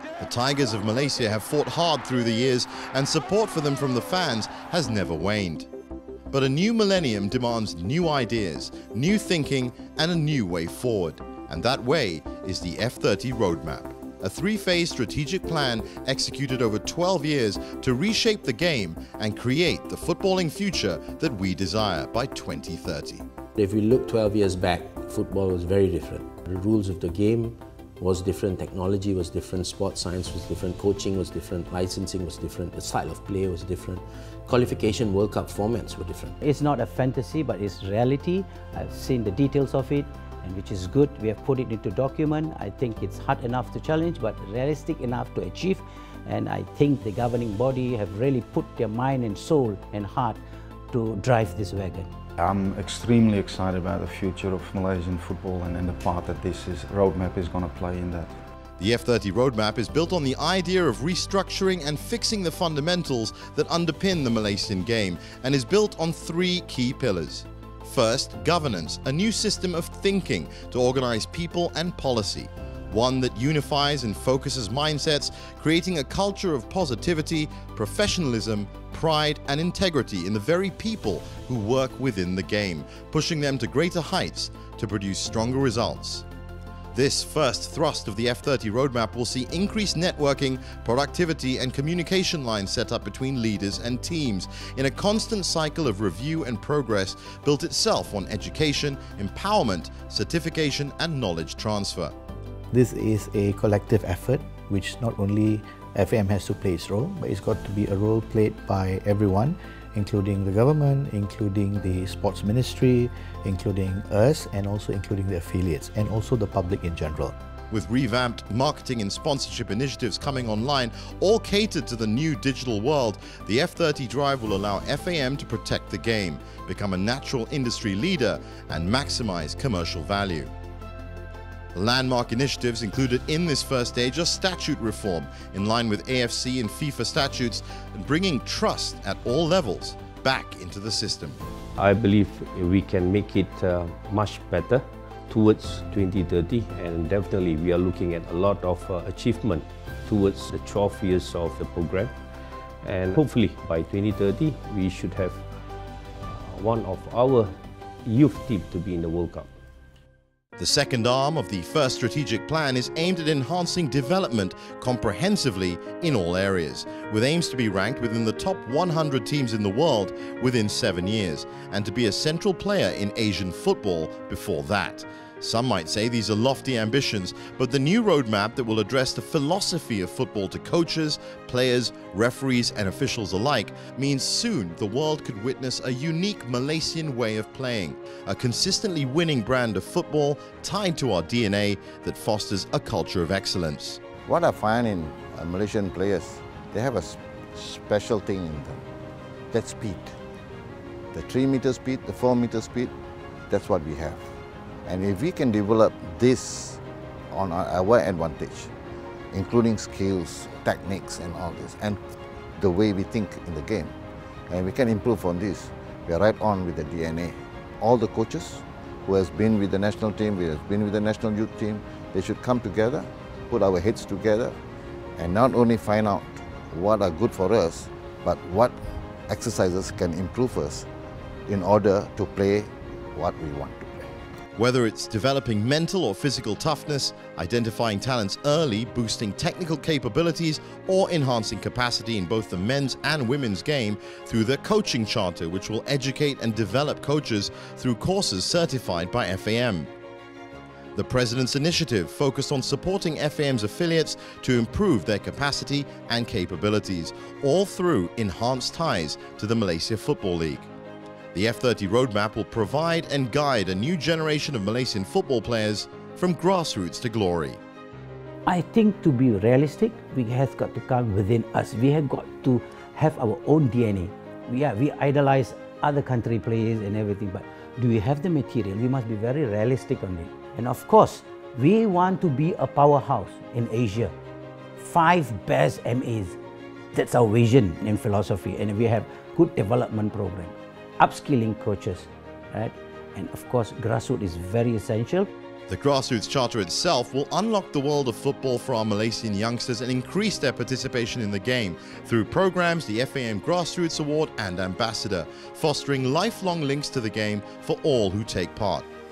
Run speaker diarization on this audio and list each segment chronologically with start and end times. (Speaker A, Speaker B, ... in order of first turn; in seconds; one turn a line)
Speaker A: 0.2-5.7
Speaker A: 6.3-23.3
Speaker B: 23.6-36.3
Speaker C: 36.4-52.1
Speaker D: 52.4-58.4
Speaker A: 58.8-86.2
Speaker A: 86.9-102.2
Speaker E: 102.7-117.4
Speaker A: 117.7-130.5
Speaker A: 131.8-141.4
Speaker F: 141.8-152.2
Speaker F: 152.8-155.5
Speaker F: 156.3-159.5
Speaker A: 160.6-194.0
Speaker G: 194.2-198.8
Speaker G: 199.5-200.1
Speaker G: 201.1-202.9
Speaker G: 203.5-204.3
Speaker G: 204.9-206.8
Speaker G: 207.3-208.7
Speaker G: 209.3-212.0
Speaker G: 212.6-213.9
Speaker G: 214.5-224.6
Speaker G: 225.2-228.8
Speaker G: 229.3-230.9
Speaker G: 231.5-234.1
Speaker A: 234.6-249.9
Speaker A: 251.0-260.7
Speaker A: 261.3-267.6
Speaker C: 268.5-284.1
Speaker C: 284.8-286.4
Speaker C: 286.9-295.3
Speaker A: 295.7-308.9